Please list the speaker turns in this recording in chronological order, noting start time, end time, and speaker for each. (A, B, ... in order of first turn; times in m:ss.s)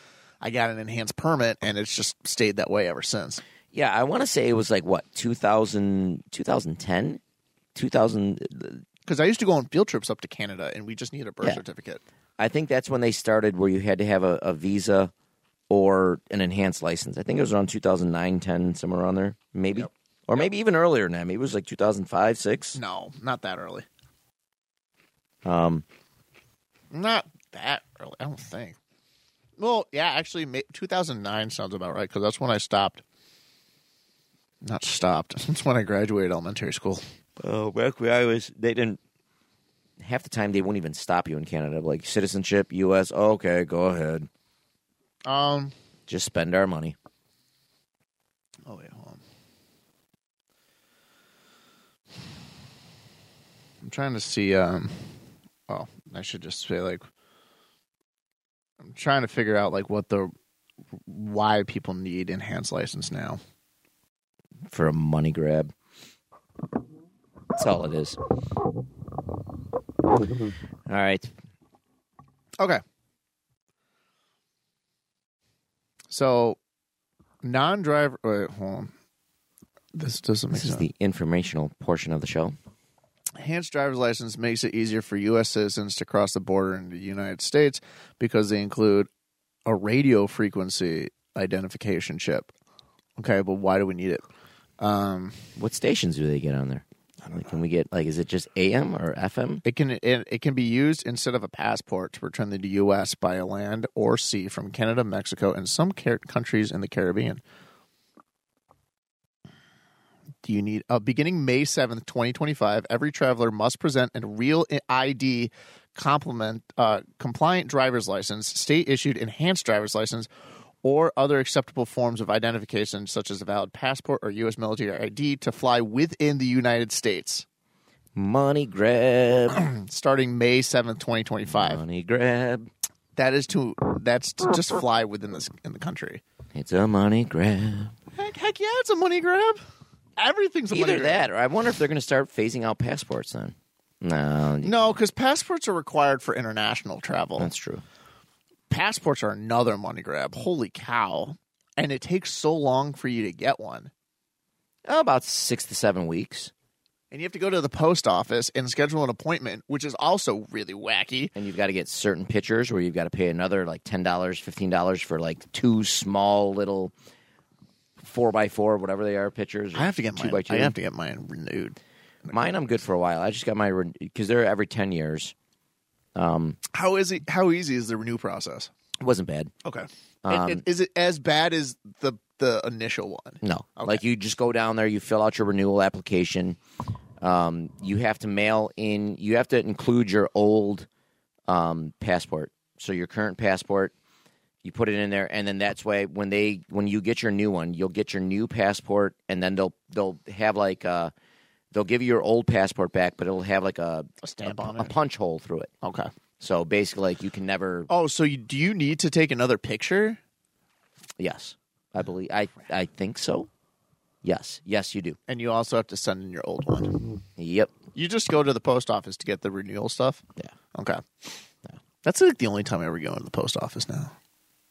0:00.4-0:03.4 A
0:03.7-0:07.2 B
0:07.8-0:08.8 B
0:09.1-0:12.0 A
0:12.4-0:15.1 B
0:15.7-0:22.8 B
0:22.8-0:23.9 A
0:25.4-0:25.8 B
0:26.9-0:28.8 A
0:29.6-0:33.0 A
0:34.6-0:37.0 A
0:37.4-0:39.0 B
0:40.0-0:44.3 B
0:45.3-0:45.7 A
0:46.1-0:47.0 B
0:48.7-0:49.2 A
0:53.8-0:55.1 A
0:55.7-0:57.0 A
0:58.8-1:00.3 A
1:01.1-1:03.4 A
1:04.7-1:05.7 B
1:07.6-1:08.2 B
1:10.9-1:11.3 B
1:16.1-1:16.6 A
1:17.4-1:18.9 A
1:20.0-1:20.9 A
1:20.5-1:22.6 B
1:23.4-1:29.1 A
1:29.6-1:32.5 A
1:33.2-1:34.2 A
1:34.8-1:35.4 A
1:35.6-1:39.6 B
1:39.6-1:47.4 A
1:50.4-2:00.3 A
2:00.8-2:07.4 A
2:08.2-2:09.6 B
2:09.5-2:11.8 A
2:11.5-2:12.7 B
2:13.2-2:16.2 A
2:16.5-2:17.9 B
2:18.1-2:19.6 A
2:20.2-2:21.3 A
2:20.7-2:24.9 B
2:24.6-2:27.5 A
2:27.4-2:27.8 B
2:28.7-2:33.9 A
2:34.9-2:36.5 B
2:37.1-2:41.3 A
2:41.4-2:46.9 B
2:48.0-2:50.8 B
2:49.7-2:52.4 A
2:52.3-2:55.3 B
2:56.2-2:56.6 B
2:56.7-2:58.7 A
2:59.0-2:59.5 B
2:59.6-3:04.0 A
3:00.2-3:00.6 B
3:03.4-3:06.6 B
3:07.2-3:10.9 B
3:11.5-3:13.9 B
3:14.6-3:21.1 B
3:21.7-3:25.7 B
3:24.2-3:24.9 A
3:25.8-3:26.1 A
3:26.4-3:27.9 B
3:27.9-3:30.2 A
3:31.2-3:33.5 B
3:34.2-3:35.2 B
3:35.3-3:37.0 A
3:37.4-3:37.7 B
3:37.9-3:40.2 A
3:40.7-3:41.4 A
3:42.0-3:44.1 A